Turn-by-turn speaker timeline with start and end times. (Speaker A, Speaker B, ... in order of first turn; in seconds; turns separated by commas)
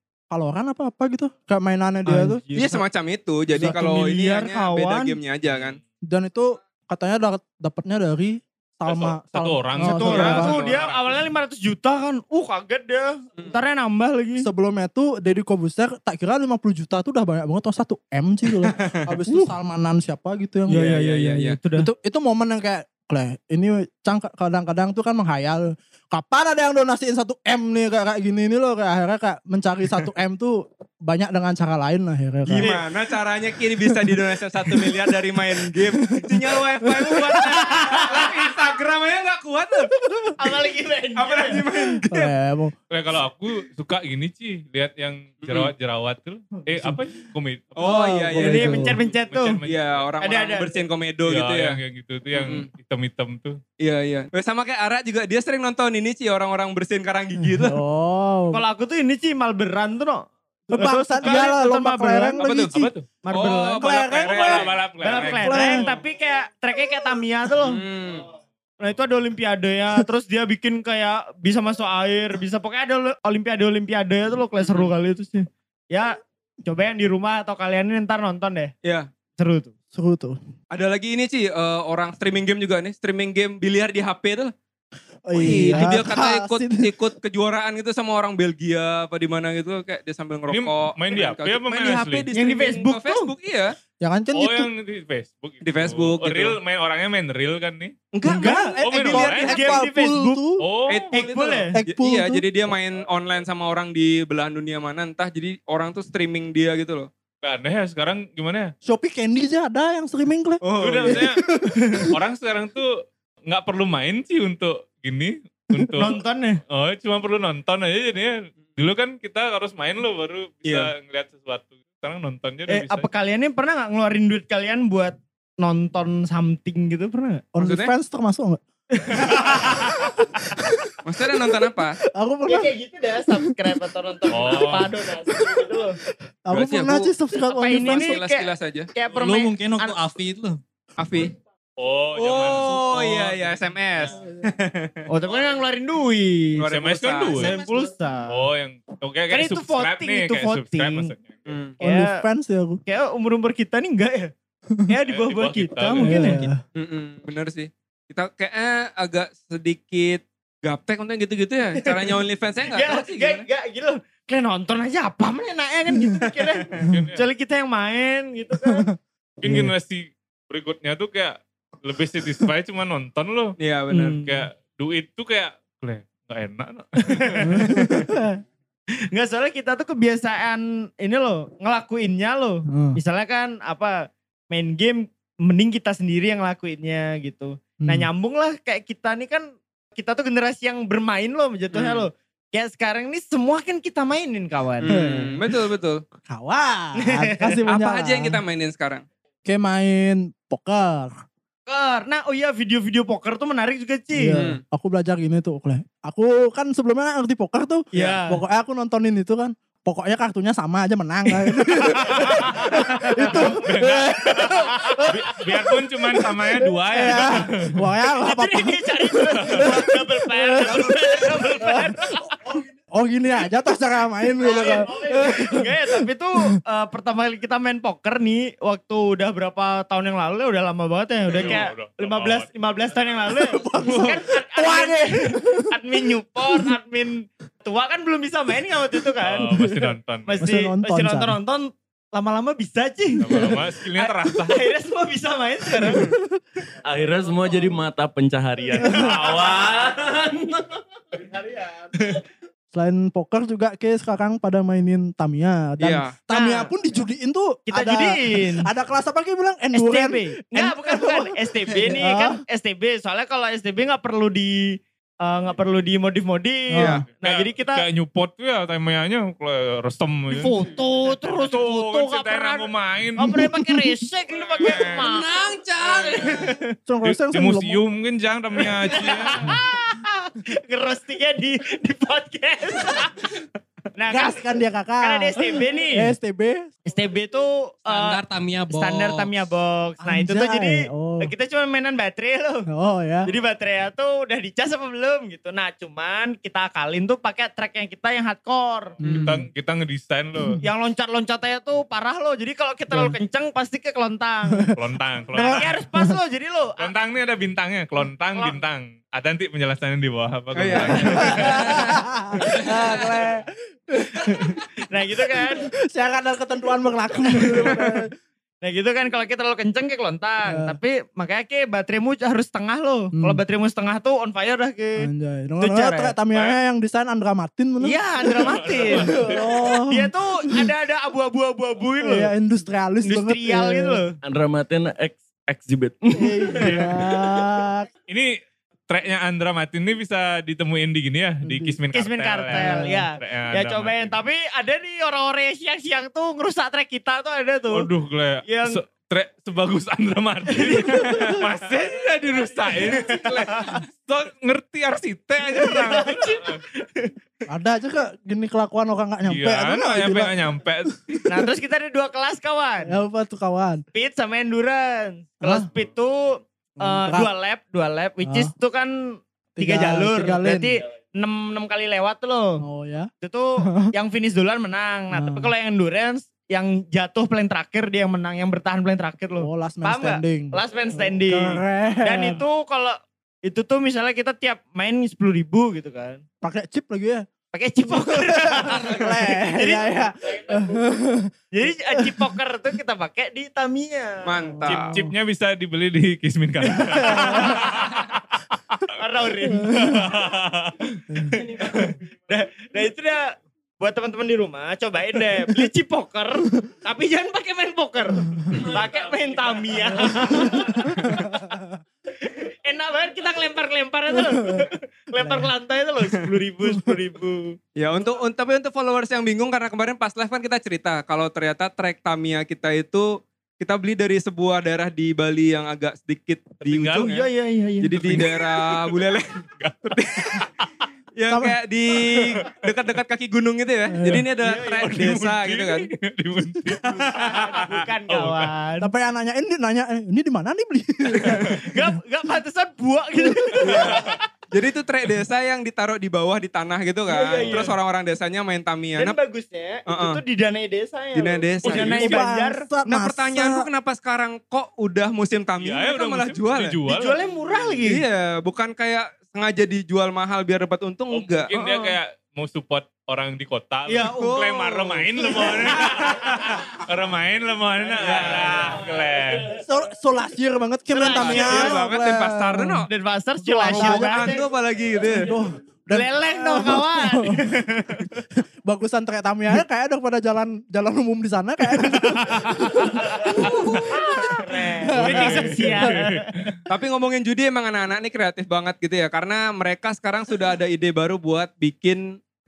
Speaker A: 0.3-2.4, Speaker B: 2.1-2.8, Speaker C: 2.5-5.8, Speaker B: 3.6-5.2, Speaker D: 5.5-5.8, Speaker A: 6.0-10.6, Speaker D: 8.9-11.0, Speaker B: 9.8-14.5, Speaker C: 10.1-10.9, Speaker A: 14.4-21.1, Speaker C: 18.6-19.0, Speaker B: 20.7-21.9, Speaker C: 20.7-21.6, Speaker A: 21.7-32.7, Speaker C: 32.5-40.0, Speaker B: 32.6-32.8, Speaker A: 34.6-37.8, Speaker A: 40.0-40.3, Speaker B: 40.4-41.6, Speaker C: 41.2-42.3, Speaker A: 42.1-42.7, Speaker D: 42.9-47.9, Speaker C: 45.4-45.7, Speaker C: 47.8-49.0, Speaker A: 47.8-49.0, Speaker B: 48.4-49.6, Speaker D: 49.1-50.1, Speaker C: 49.6-51.8, Speaker B: 50.2-50.7, Speaker D: 51.3-53.6, Speaker C: 52.3-52.7, Speaker C: 53.8-57.8, Speaker A: 57.4-58.6, Speaker B: 58.5-62.4, Speaker A: 60.7-62.9, Speaker C: 62.4-62.8, Speaker D: 62.7-63.1, Speaker B: 63.2-63.8, Speaker C: 63.3-65.4, Speaker A: 63.8-64.7, Speaker D: 64.2-65.7, Speaker B: 65.0-67.8, Speaker A: 65.4-65.9, Speaker C: 67.6-68.3, Speaker B: 68.8-78.7, Speaker C: 74.6-74.9, Speaker B: 79.4-79.7, Speaker A: 79.9-80.4, Speaker C: 80.7-84.5, Speaker A: 85.3-86.9, Speaker C: 85.3-93.8, Speaker B: 85.5-85.8, Speaker D: 90.5-92.3, Speaker B: 92.3-93.3, Speaker A: 94.0-94.7, Speaker D: 94.3-97.9, Speaker C: 95.6-96.6, Speaker C: 98.1-99.8, Speaker A: 98.2-100.6, Speaker D: 98.8-99.6, Speaker B: 99.3-100.4, Speaker D: 100.6-101.1, Speaker C: 100.9-107.1, Speaker B: 101.1-101.8, Speaker A: 101.7-102.4, Speaker D: 107.4-108.7, Speaker A: 108.8-112.1, Speaker C: 110.6-111.3, Speaker D: 110.8-111.4, Speaker D: 112.1-116.2, Speaker B: 116.0-116.6, Speaker D: 116.7-123.1, Speaker C: 120.7-120.9, Speaker B: 122.7-127.4, Speaker A: 127.5-128.6, Speaker C: 127.6-127.9, Speaker B: 129.0-129.7, Speaker C: 131.1-132.0, Speaker A: 132.1-132.7, Speaker B: 132.5-136.0, Speaker D: 134.3-134.9, Speaker A: 135.4-135.7, Speaker A: 136.4-138.2, Speaker C: 136.5-137.1, Speaker B: 137.4-140.0, Speaker C: 137.8-138.9, Speaker E: 139.1-140.6, Speaker C: 141.0-141.3, Speaker D: 141.8-142.9, Speaker C: 142.2-145.1, Speaker B: 145.1-146.6, Speaker C: 146.6-147.6, Speaker D: 146.7-147.6, Speaker B: 147.3-148.3, Speaker E: 147.4-147.9, Speaker D: 148.3-151.4, Speaker B: 149.3-151.1, Speaker C: 151.5-151.8, Speaker A: 151.8-152.8, Speaker B: 151.8-152.2, Speaker B: 152.9-154.3, Speaker B: 154.9-156.5, Speaker D: 155.1-156.4, Speaker A: 156.0-156.6, Speaker C: 156.8-163.4, Speaker B: 161.8-162.2, Speaker B: 162.7-168.9, Speaker D: 166.9-167.2, Speaker D: 169.4-173.6, Speaker A: 169.4-169.7, Speaker C: 173.6-174.2, Speaker B: 173.9-174.3, Speaker D: 174.2-177.5, Speaker B: 177.2-177.6, Speaker A: 177.4-178.4, Speaker C: 177.7-178.1, Speaker B: 179.1-184.0, Speaker A: 182.7-183.0, Speaker B: 184.5-195.0, Speaker A: 187.8-188.1, Speaker C: 191.7-192.1, Speaker C: 194.8-196.0, Speaker A: 194.9-195.4, Speaker A: 196.2-198.4, Speaker B: 197.0-197.6, Speaker C: 197.7-199.1, Speaker A: 199.4-201.2, Speaker B: 201.7-204.3, Speaker A: 204.1-215.1, Speaker C: 204.3-204.6, Speaker B: 207.9-208.4, Speaker B: 211.9-213.5, Speaker D: 212.3-212.8, Speaker D: 213.3-217.8, Speaker B: 214.7-215.1, Speaker A: 216.6-222.0, Speaker B: 218.2-222.5, Speaker A: 222.9-225.9, Speaker B: 224.4-239.6, Speaker D: 231.3-232.5, Speaker A: 233.3-235.7, Speaker C: 233.8-234.2, Speaker D: 239.2-240.4, Speaker A: 239.5-239.8, Speaker B: 240.3-246.0, Speaker A: 240.4-241.4, Speaker D: 243.2-244.7, Speaker A: 246.0-246.4, Speaker F: 246.9-250.8, Speaker A: 248.8-249.2, Speaker A: 252.7-262.4, Speaker C: 255.8-256.1, Speaker B: 256.3-256.7, Speaker B: 257.7-258.7, Speaker B: 259.7-267.8, Speaker A: 266.7-267.0, Speaker C: 266.8-267.1, Speaker D: 267.2-270.6, Speaker B: 270.3-276.7, Speaker D: 271.2-273.6, Speaker D: 274.6-275.0, Speaker E: 274.6-276.5, Speaker A: 276.9-277.8, Speaker D: 277.0-279.5, Speaker B: 278.9-283.3, Speaker B: 284.0-284.4, Speaker A: 284.1-286.7, Speaker B: 285.0-286.1, Speaker B: 286.9-292.7, Speaker E: 287.9-289.3, Speaker A: 290.0-291.3, Speaker A: 292.7-293.3, Speaker B: 293.2-298.9, Speaker A: 299.0-299.4, Speaker D: 299.0-300.6, Speaker B: 300.6-304.7, Speaker A: 302.9-303.2, Speaker D: 304.8-305.6, Speaker A: 305.3-306.2, Speaker B: 305.4-306.9, Speaker D: 306.8-311.7, Speaker C: 310.6-311.5, Speaker A: 311.1-314.6, Speaker B: 312.6-313.3, Speaker B: 314.2-315.7, Speaker A: 315.2-318.1, Speaker B: 318.6-325.1, Speaker A: 320.5-320.8, Speaker A: 323.1-323.4, Speaker A: 325.0-330.6, Speaker B: 325.6-326.1, Speaker B: 327.8-329.1, Speaker D: 328.4-329.5, Speaker B: 329.9-332.3, Speaker A: 332.0-334.0, Speaker B: 333.1-334.1, Speaker F: 334.2-336.8, Speaker A: 336.2-337.9, Speaker D: 338.1-344.1, Speaker A: 341.4-341.8, Speaker B: 341.9-347.9, Speaker A: 342.5-343.0, Speaker D: 347.7-356.6, Speaker B: 348.5-348.8, Speaker B: 350.5-351.4, Speaker B: 352.9-353.8, Speaker B: 355.5-357.1, Speaker A: 357.5-360.3, Speaker D: 359.3-361.3, Speaker B: 361.3-362.9, Speaker A: 362.9-363.8, Speaker B: 363.9-372.6, Speaker A: 365.4-365.7, Speaker A: 366.8-367.3, Speaker A: 368.2-368.5, Speaker A: 369.6-370.8, Speaker A: 372.6-373.1, Speaker B: 373.2-386.2, Speaker A: 373.6-373.9, Speaker A: 375.1-375.5, Speaker A: 379.4-382.4, Speaker A: 386.4-387.3, Speaker B: 387.5-390.6, Speaker A: 388.0-391.3, Speaker B: 391.5-394.3, Speaker A: 391.9-392.3, Speaker C: 394.2-394.9, Speaker A: 394.6-395.1, Speaker D: 394.7-398.8, Speaker A: 396.8-397.6, Speaker B: 397.0-397.7, Speaker B: 398.9-400.0, Speaker A: 399.6-400.0, Speaker D: 399.8-401.0, Speaker B: 401.5-403.3, Speaker B: 403.8-411.4, Speaker A: 410.1-411.6, Speaker C: 411.0-411.2, Speaker B: 412.2-417.6, Speaker A: 414.1-414.6, Speaker A: 415.2-415.5, Speaker A: 416.7-416.9, Speaker C: 417.8-427.2, Speaker D: 426.6-427.1, Speaker B: 427.1-428.2, Speaker C: 427.8-429.3, Speaker D: 428.0-429.0, Speaker D: 429.6-430.5, Speaker C: 429.9-430.5, Speaker C: 431.2-435.9, Speaker A: 431.3-431.6, Speaker A: 433.9-434.3, Speaker D: 434.5-438.5, Speaker B: 436.9-438.9, Speaker A: 438.8-441.9, Speaker B: 441.6-444.2, Speaker A: 443.2-443.6, Speaker C: 443.6-449.2, Speaker B: 447.1-447.7, Speaker B: 449.0-452.7, Speaker C: 449.9-450.2, Speaker C: 451.1-452.2, Speaker A: 451.8-453.6, Speaker C: 452.9-456.8, Speaker D: 455.6-457.2, Speaker B: 456.9-458.0, Speaker C: 457.8-461.5, Speaker D: 461.1-469.5, Speaker B: 461.6-461.9, Speaker B: 463.9-464.2, Speaker C: 464.0-466.5, Speaker C: 468.0-468.6, Speaker A: 469.6-472.9, Speaker B: 470.9-471.7, Speaker C: 471.1-472.9, Speaker B: 472.9-474.4, Speaker A: 473.4-474.4, Speaker C: 473.7-475.3, Speaker A: 475.2-477.6, Speaker B: 475.9-478.1, Speaker A: 478.6-486.0, Speaker D: 482.3-482.8, Speaker B: 482.7-486.3, Speaker D: 485.0-486.5, Speaker C: 486.7-492.2